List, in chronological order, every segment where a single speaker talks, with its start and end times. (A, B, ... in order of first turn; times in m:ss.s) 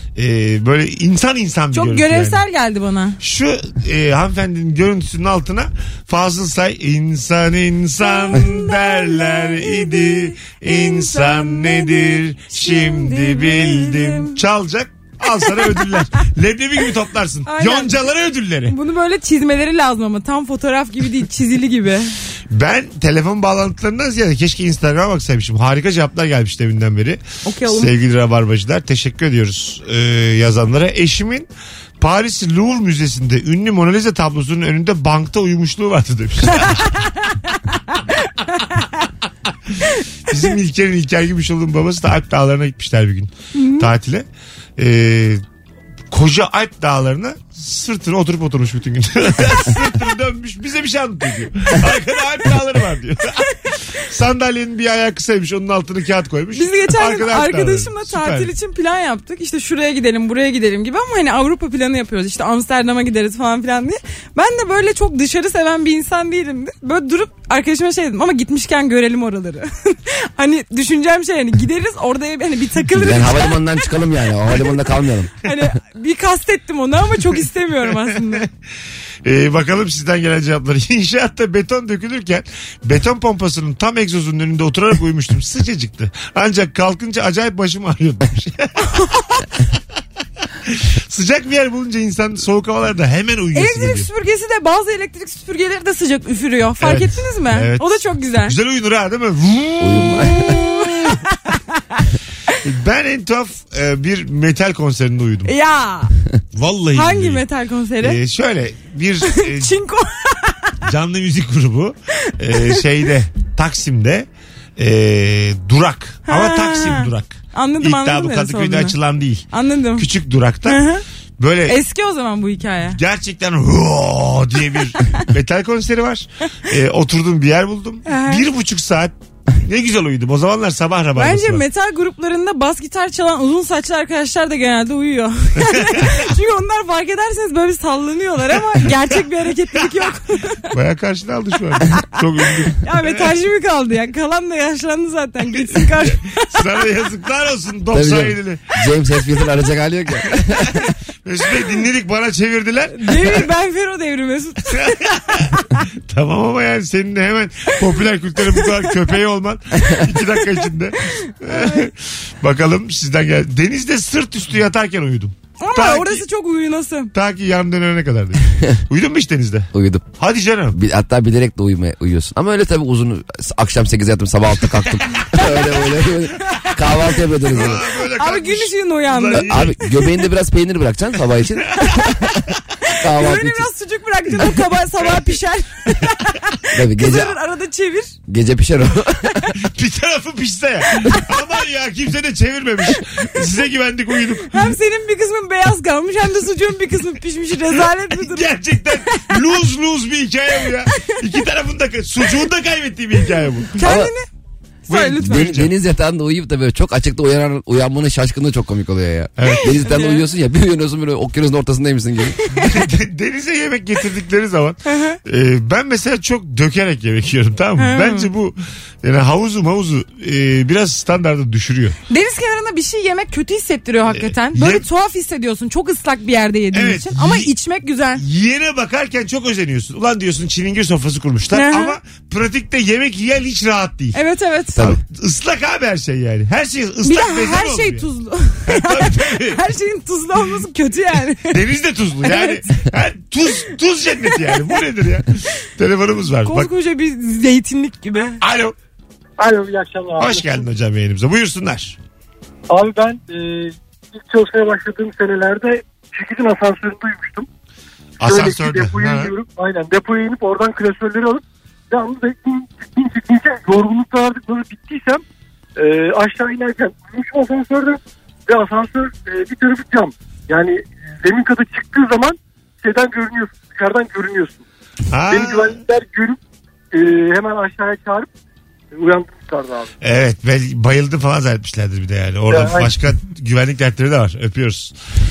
0:00.2-0:02.4 A
0:01.7-0:03.2 B
0:03.2-0:18.7 A
0:08.0-0:14.4 B
0:15.3-0:16.2 B
0:17.5-0:18.0 B
0:18.7-0:22.1 B
0:22.5-0:36.9 A
0:27.4-0:27.9 B
0:36.6-0:38.9 B
0:40.3-0:44.3 A
0:43.6-0:43.9 B
0:44.8-0:45.4 A
0:46.1-0:58.5 A
0:56.5-1:13.9 B
1:12.9-1:15.3 C
1:15.4-1:18.5 B
1:19.2-1:28.7 A
1:28.8-1:29.4 B
1:30.7-1:34.1 A
1:33.5-1:38.6 B
1:36.8-1:37.8 A
1:38.4-1:40.2 A
1:39.8-1:40.6 C
1:40.0-1:42.0 B
1:42.6-1:45.5 A
1:45.5-1:46.1 B
1:46.6-1:47.4 A
1:46.9-1:48.2 B
1:48.0-1:49.7 A
1:49.2-1:50.8 B
1:50.8-1:59.4 A
1:52.5-1:52.8 B
1:56.3-1:59.0 B
1:59.5-2:00.1 B
2:00.0-2:00.8 A
2:00.6-2:01.0 B
2:01.4-2:01.8 A
2:01.7-2:03.0 B
2:02.9-2:11.6 A
2:08.1-2:08.4 B
2:11.2-2:20.7 B
2:15.7-2:16.2 A
2:20.7-2:23.3 A
2:22.8-2:26.6 B
2:25.8-2:28.7 A
2:27.9-2:30.8 C
2:30.7-2:33.4 A
2:32.9-2:35.8 B
2:34.8-2:35.6 A
2:36.1-2:46.2 A
2:38.5-2:38.9 B
2:40.3-2:41.9 B
2:45.6-2:47.1 B
2:47.1-2:50.8 A
2:49.7-2:50.1 C
2:50.7-2:57.8 C
2:57.5-2:59.8 A
2:58.2-3:00.1 B
2:59.4-3:02.3 C
3:01.8-3:02.3 B
3:02.9-3:08.1 B
3:03.0-3:03.7 C
3:06.8-3:07.4 C
3:08.3-3:09.4 C
3:09.6-3:14.7 A
3:14.5-3:18.5 B
3:18.1-3:23.8 A
3:19.1-3:19.4 B
3:23.8-3:24.3 B
3:23.8-3:24.1 C
3:24.9-3:25.5 B
3:24.9-3:25.7 A
3:25.2-3:32.4 C
3:29.4-3:29.8 A
3:29.5-3:30.2 B
3:32.5-3:32.8 B
3:32.6-3:42.0 A
3:34.9-3:35.2 B
3:37.8-3:38.3 B
3:42.1-3:48.2 B
3:44.1-3:44.8 A
3:46.7-3:47.5 A
3:48.2-3:54.2 A
3:51.5-3:52.0 B
3:54.1-3:54.8 B
3:54.8-3:58.1 A
3:57.0-4:01.6 B
3:58.7-3:59.6 A
4:01.4-4:06.7 A
4:02.2-4:02.8 B
4:04.2-4:04.6 B
4:06.4-4:08.4 B
4:08.4-4:08.8 A
4:09.4-4:10.7 D
4:10.2-4:12.0 A
4:12.7-4:17.5 D
4:18.2-4:19.3 A
4:18.2-4:25.2 D
4:25.8-4:34.6 D
4:35.1-4:35.8 A
4:35.3-4:36.4 D
4:36.9-4:38.3 D
4:38.9-4:39.9 D
4:40.0-4:44.9 A
4:42.5-4:42.9 D